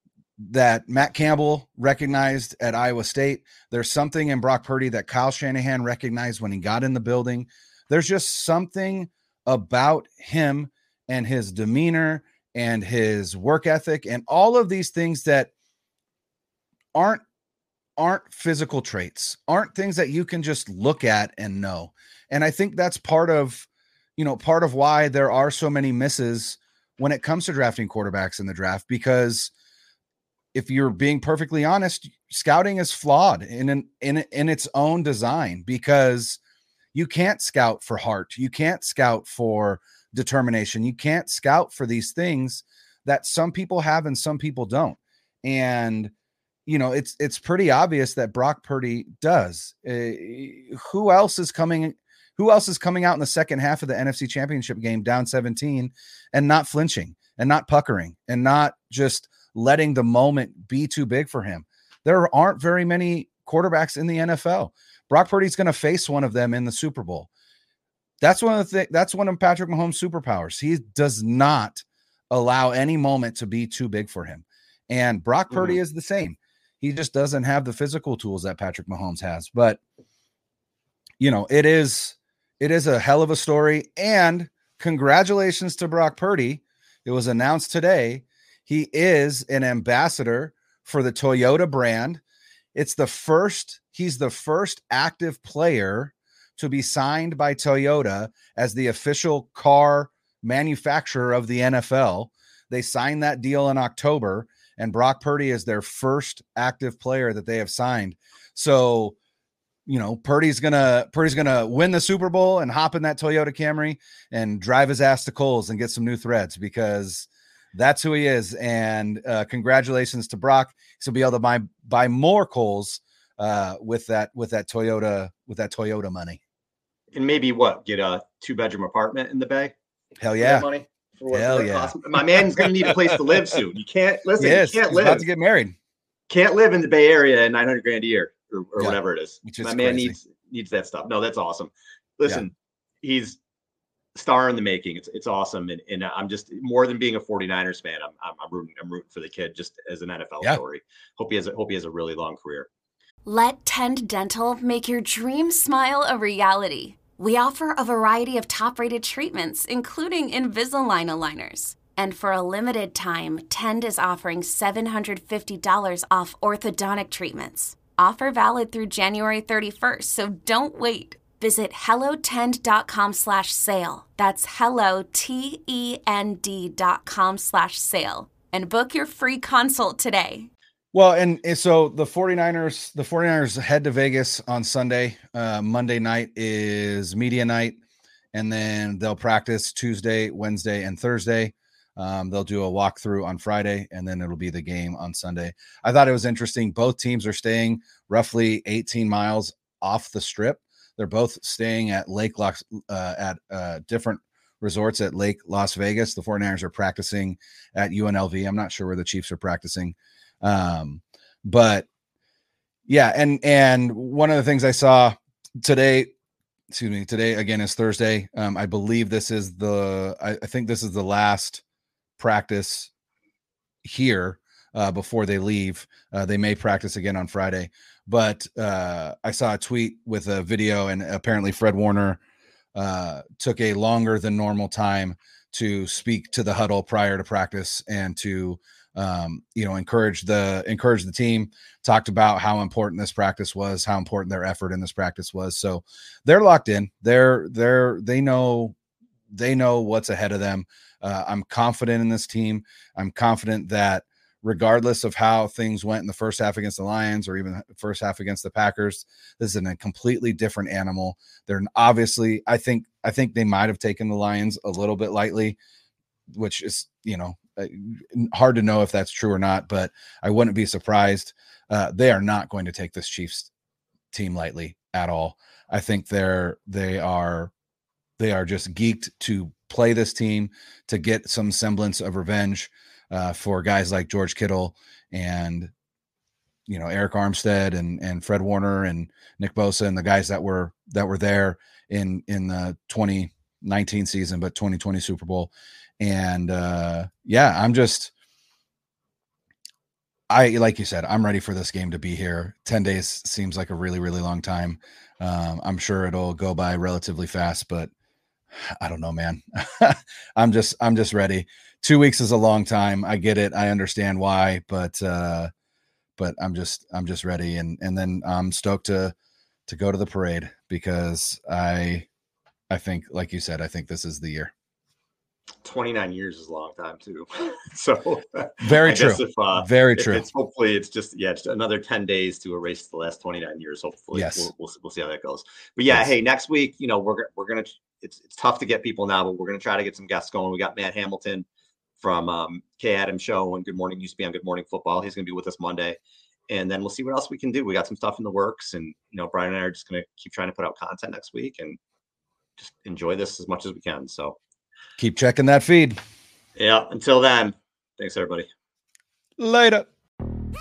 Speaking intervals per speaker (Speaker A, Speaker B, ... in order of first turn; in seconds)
Speaker A: 0.4-15.5, 16.9-17.2, 18.0-29.5, 30.5-36.4, 36.9-46.1, 46.7-67.3, 68.2-79.8, 81.2-92.2, 92.8-109.2, 109.9-126.4, 130.2-130.7, 131.3-132.0, 134.4-135.8, 138.8-140.2, 180.9-187.8, 188.3-211.9, 212.9-216.1, 216.7-221.6, 222.2-222.9, 223.8-232.2, 232.8-248.8, 249.3-265.6, 266.3-273.5, 274.1-277.5, 278.2-285.7, 286.7-298.1, 300.3-307.9, 308.8-315.5, 316.2-319.1, 319.7-322.1, 322.7-324.5, 328.6-330.3, 334.1-334.5, 355.0-356.0, 359.4-359.9
Speaker B: 75.5-75.8, 127.1-129.7, 130.4-135.2, 136.3-143.4, 144.2-152.7, 325.6-341.4, 342.0-346.0, 346.5-351.8, 352.6-354.4, 356.6-358.5
Speaker C: 153.2-180.5